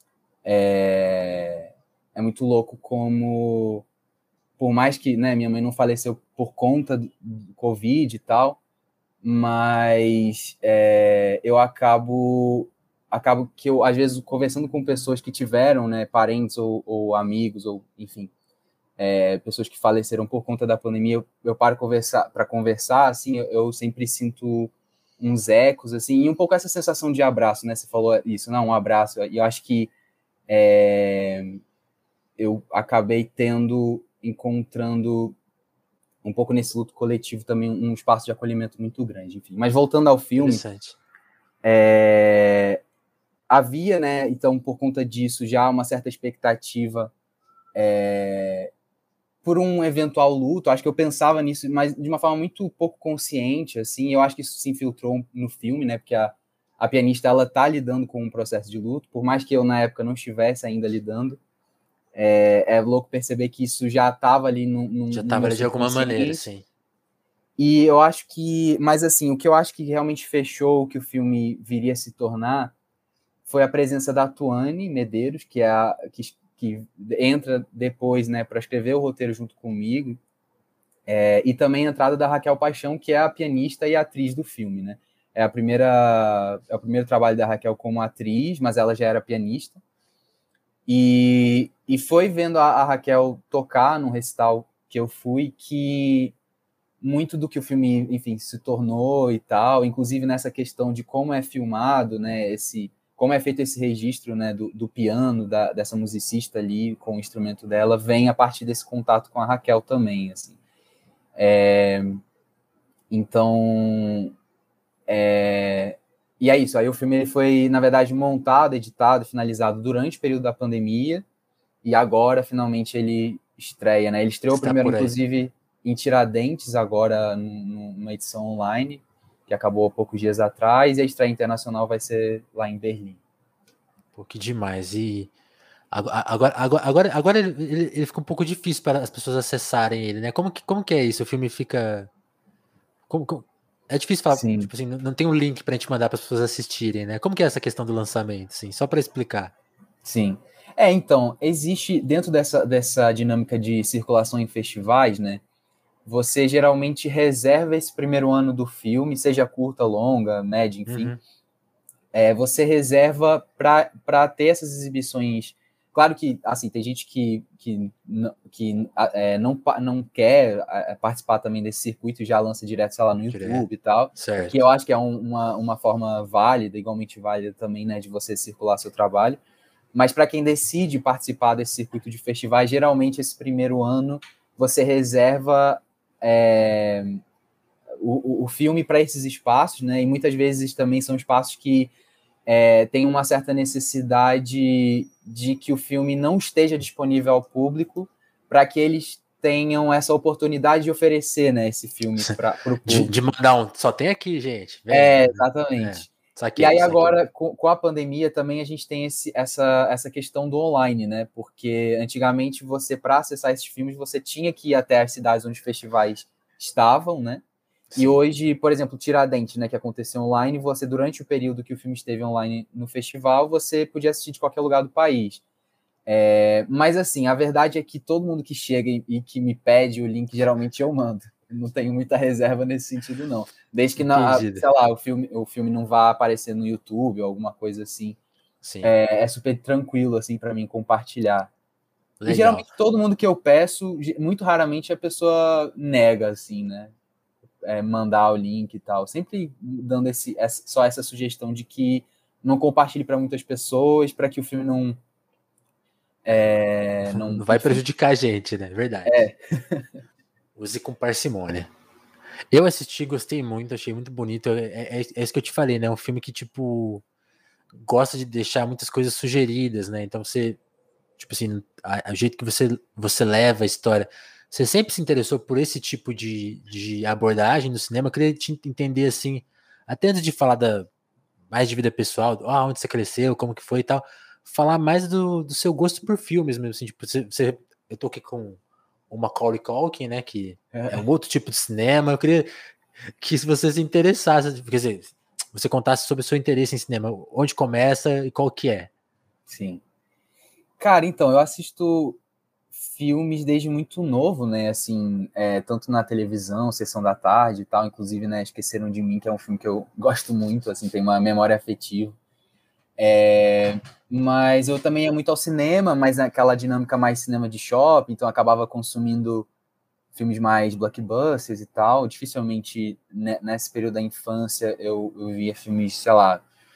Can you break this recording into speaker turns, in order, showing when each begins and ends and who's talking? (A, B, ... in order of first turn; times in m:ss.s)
0:00.4-0:03.8 A
0:04.6-0:08.6 A
0:09.2-0:18.3 A
0:19.0-0:29.9 A
0:30.5-0:31.6 A
0:32.4-0:35.4 A
0:36.2-0:40.6 A
0:40.4-0:41.0 B
0:41.6-0:42.8 A
0:43.5-0:47.1 A
0:47.7-0:48.7 A
0:49.4-1:01.4 A
1:02.1-1:06.4 A
1:05.1-1:06.6 B
1:07.6-1:12.7 A
1:13.5-1:20.2 A
1:21.1-1:29.8 A
1:30.9-1:36.3 A
1:37.0-1:50.6 A
1:51.4-1:52.2 A
1:53.1-1:54.3 A
1:55.1-2:01.2 A
2:01.8-2:13.2 A
2:04.5-2:05.2 B
2:14.1-2:15.3 B
2:15.9-2:22.1 B
2:23.1-2:29.5 B
2:24.3-2:24.7 A
2:30.0-2:35.4 A
2:36.0-2:41.2 A
2:40.9-2:41.2 B
2:42.1-2:59.4 A
2:53.3-2:54.6 B
2:59.9-3:07.2 A
3:08.0-3:11.9 A
3:12.5-3:23.1 A
3:22.8-3:27.2 B
3:24.9-3:37.4 A
3:37.9-3:45.4 A
3:46.0-3:58.2 A
3:54.0-3:54.6 B
3:58.6-3:58.9 B
3:58.8-4:01.5 A
4:02.2-4:02.7 B
4:02.2-4:06.9 A
4:07.6-4:15.0 A
4:16.2-4:17.8 A
4:17.1-4:19.2 B
4:19.1-4:20.0 A
4:20.6-4:21.7 B
4:22.5-4:27.0 B
4:27.8-4:30.6 B
4:31.2-4:40.9 B
4:41.5-4:52.5 B
4:50.7-4:51.0 A
4:53.2-4:58.9 B
4:59.5-4:59.8 A
5:00.8-5:02.2 A
5:02.8-5:12.2 A
5:13.0-5:19.5 A
5:20.1-5:26.4 A